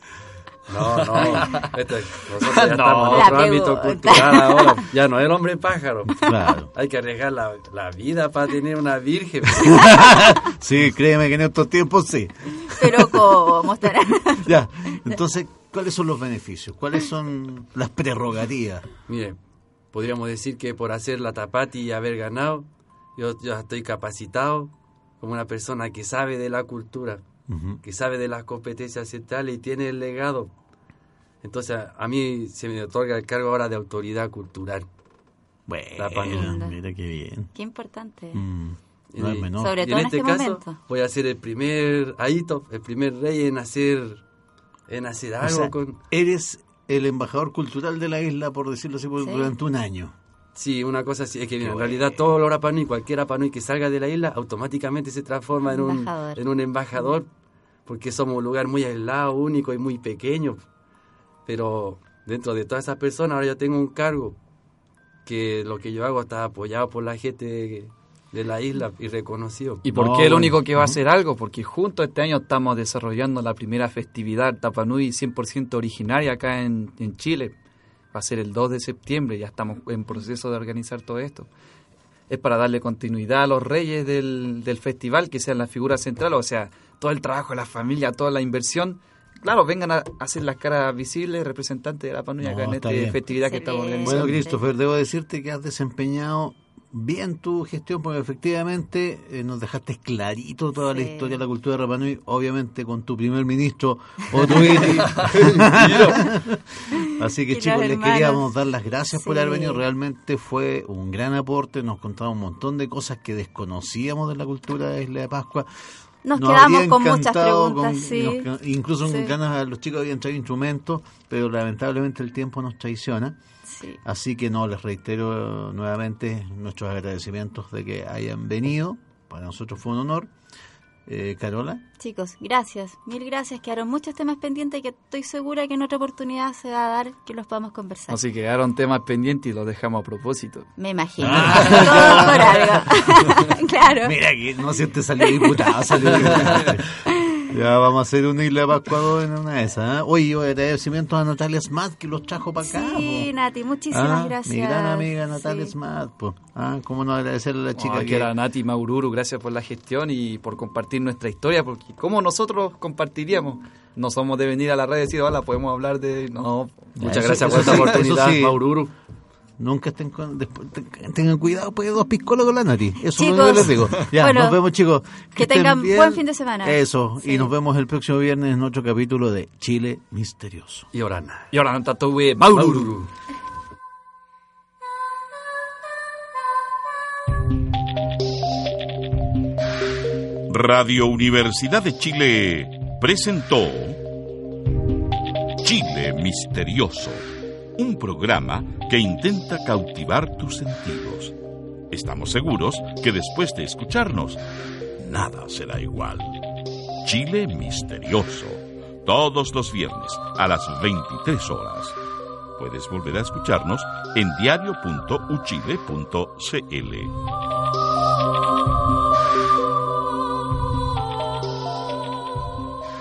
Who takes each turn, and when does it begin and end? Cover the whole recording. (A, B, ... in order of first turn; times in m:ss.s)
0:00.7-0:10.1 A
0:01.1-0:01.8 B
0:02.4-0:03.4 B
0:03.1-0:04.8 C
0:06.2-0:06.7 D
0:09.6-0:13.7 D
0:12.7-0:15.2 C
0:14.4-0:18.9 D
0:19.1-0:19.4 A
0:19.9-0:27.2 A
0:27.5-0:27.8 D
0:27.8-0:30.5 A
0:31.4-0:34.9 A
0:35.7-0:37.5 D
0:36.0-0:36.6 A
0:36.3-0:36.8 C
0:37.5-0:38.4 C
0:38.3-0:39.8 D
0:39.1-0:44.2 A
0:39.6-0:40.8 C
0:44.9-0:46.0 A
0:45.4-0:50.1 D
0:49.2-0:49.5 C
0:50.5-0:57.3 A
0:51.6-0:52.1 D
0:55.6-0:56.4 C
0:57.8-1:00.6 A
1:01.4-1:04.4 A
1:05.2-1:09.8 A
1:09.8-1:17.5 B
1:09.9-1:11.0 D
1:18.1-1:21.5 B
1:22.3-1:34.4 B
1:32.4-1:33.2 D
1:33.3-1:34.6 C
1:34.0-1:55.7 D
1:40.8-1:41.4 C
1:44.9-1:46.2 B
1:47.0-1:48.4 C
1:49.1-1:49.8 C
1:56.2-1:58.5 C
1:56.3-2:03.4 D
1:59.0-1:59.3 C
2:03.7-2:04.0 C
2:04.0-2:10.3 D
2:11.0-2:11.8 D
2:12.0-2:18.2 C
2:18.1-2:20.7 B
2:20.8-2:24.2 C
2:21.2-2:33.3 D
2:21.6-2:21.9 B
2:25.2-2:27.3 C
2:26.2-2:26.7 A
2:32.6-2:35.7 C
2:33.9-2:38.3 D
2:37.8-2:48.0 B
2:47.0-2:48.6 D
2:47.0-2:48.9 A
2:49.6-3:00.9 D
2:53.1-2:54.6 C
2:55.4-2:57.5 C
3:00.9-3:01.5 A
3:01.5-3:02.9 B
3:02.4-3:03.1 A
3:10.5-3:14.0 E
3:15.6-3:21.4 E
3:21.9-3:24.4 E
3:25.0-3:26.4 E
3:27.0-3:32.0 E
3:32.6-3:37.1 E